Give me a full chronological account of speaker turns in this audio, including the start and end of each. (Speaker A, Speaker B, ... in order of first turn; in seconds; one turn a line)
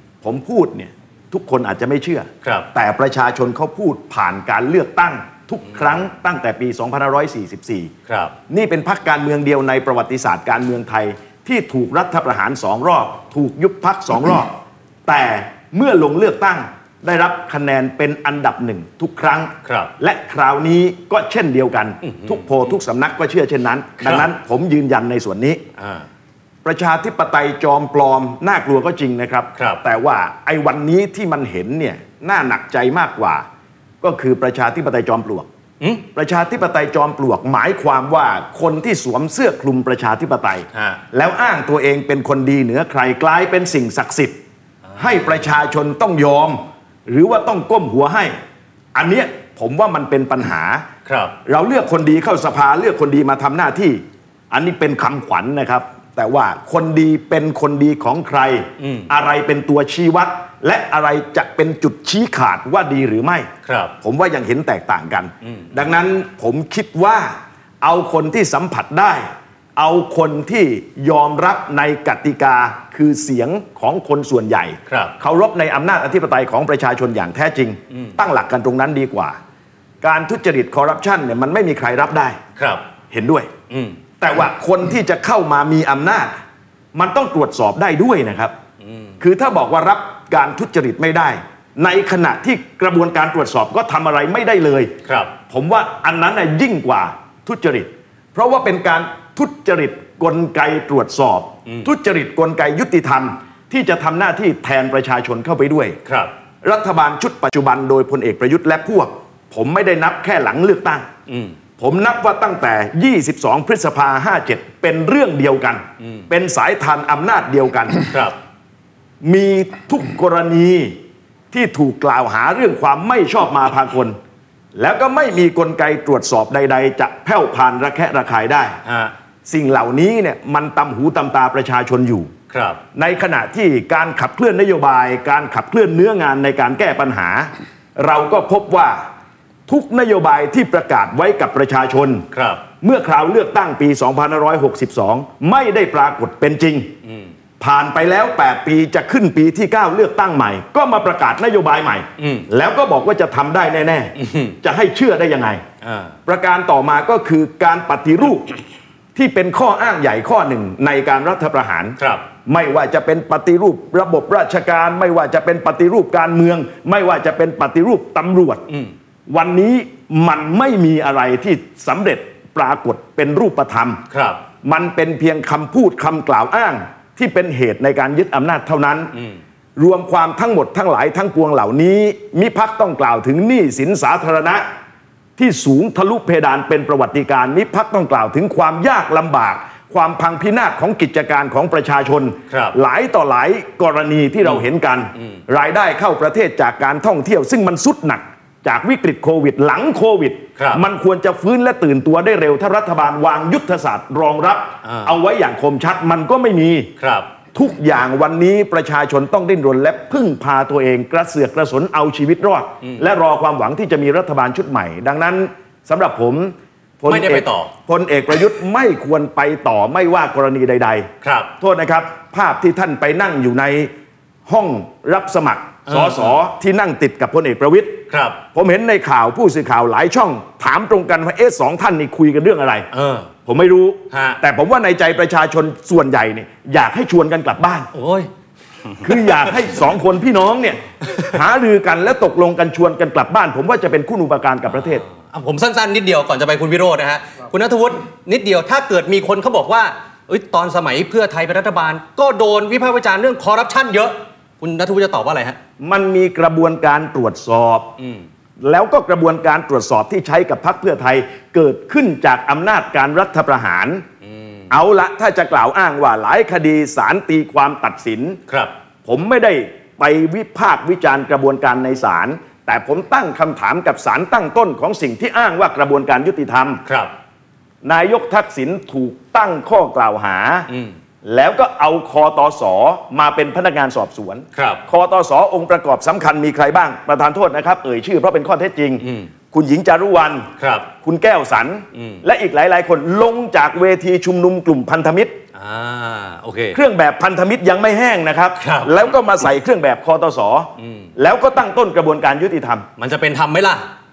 Speaker A: 0.2-7.9
Speaker B: 2.4-2.7
Speaker B: 8.1-8.3
Speaker A: 8.5-14.6
Speaker A: 15.1-25.6
Speaker B: 19.6-19.9
Speaker B: 22.0-22.5
Speaker B: 24.0-24.3
Speaker B: 25.8-26.1
Speaker A: 26.6-33.5
Speaker B: 29.6-29.8
Speaker A: 34.0-35.5
Speaker B: 35.8-36.0
Speaker A: 36.1-44.4
Speaker B: 40.7-41.0
Speaker B: 44.9-45.5
Speaker A: 45.0-48.3
Speaker A: 48.9-50.9
Speaker B: 51.0-51.4
Speaker A: 51.5-63.5
Speaker B: 58.8-59.1
Speaker B: 63.6-63.9
Speaker A: 64.0-79.4
Speaker B: 65.4-65.8
Speaker B: 74.9-75.1
Speaker B: 77.9-78.2
Speaker A: 80.0-82.4
Speaker B: 82.5-82.8
Speaker A: 83.1-83.5
Speaker B: 83.7-84.0
Speaker A: 84.2-86.4
Speaker A: 86.9-88.5
Speaker B: 88.8-89.2
Speaker A: 89.2-94.9
Speaker B: 95.0-95.3
Speaker A: 95.5-106.0
Speaker B: 106.0-106.3
Speaker A: 106.6-111.1
Speaker B: 111.3-111.5
Speaker A: 111.8-118.1
Speaker B: 116.0-116.3
Speaker B: 118.1-118.4
Speaker A: 119.2-121.0
Speaker A: 121.5-124.2
Speaker A: 124.7-128.8
Speaker B: 128.8-129.1
Speaker A: 129.4-132.3
Speaker B: 132.5-132.8
Speaker A: 132.9-139.1
Speaker A: 139.7-142.3
Speaker B: 142.3-142.6
Speaker A: 142.8-146.9
Speaker B: 147.0-147.3
Speaker A: 147.6-155.6
Speaker B: 152.2-152.5
Speaker B: 154.2-154.6
Speaker B: 155.8-156.2
Speaker A: 156.3-158.6
Speaker A: 159.1-168.7
Speaker B: 162.0-162.2
Speaker A: 169.3-174.0
Speaker B: 174.1-174.4
Speaker A: 174.6-179.1
Speaker A: 179.8-184.6
Speaker A: 185.4-206.9
Speaker B: 192.5-192.7
Speaker B: 200.6-200.8
Speaker B: 204.8-205.2
Speaker B: 207.0-207.3
Speaker A: 207.5-223.9
Speaker B: 217.1-217.7
Speaker B: 221.2-221.5
Speaker A: 224.5-232.9
Speaker B: 225.9-226.4
Speaker B: 228.1-228.4
Speaker B: 232.9-233.3
Speaker A: 233.4-237.9
Speaker B: 234.1-234.4
Speaker B: 237.9-238.3
Speaker A: 239.0-245.0
Speaker B: 239.1-239.5
Speaker B: 244.7-255.6
Speaker A: 255.8-257.9
Speaker B: 258.0-258.2
Speaker A: 258.6-264.0
Speaker B: 264.2-264.7
Speaker A: 264.7-268.4
Speaker B: 268.5-268.7
Speaker A: 269.0-276.8
Speaker B: 276.8-277.1
Speaker A: 277.8-280.7
Speaker B: 280.7-280.9
Speaker A: 281.2-295.4
Speaker B: 284.5-284.8
Speaker B: 289.0-289.3
Speaker B: 290.6-290.9
Speaker B: 291.9-292.2
Speaker B: 295.5-296.8
Speaker A: 296.7-302.9
Speaker B: 298.6-298.9
Speaker B: 300.8-301.1
Speaker B: 303.0-303.9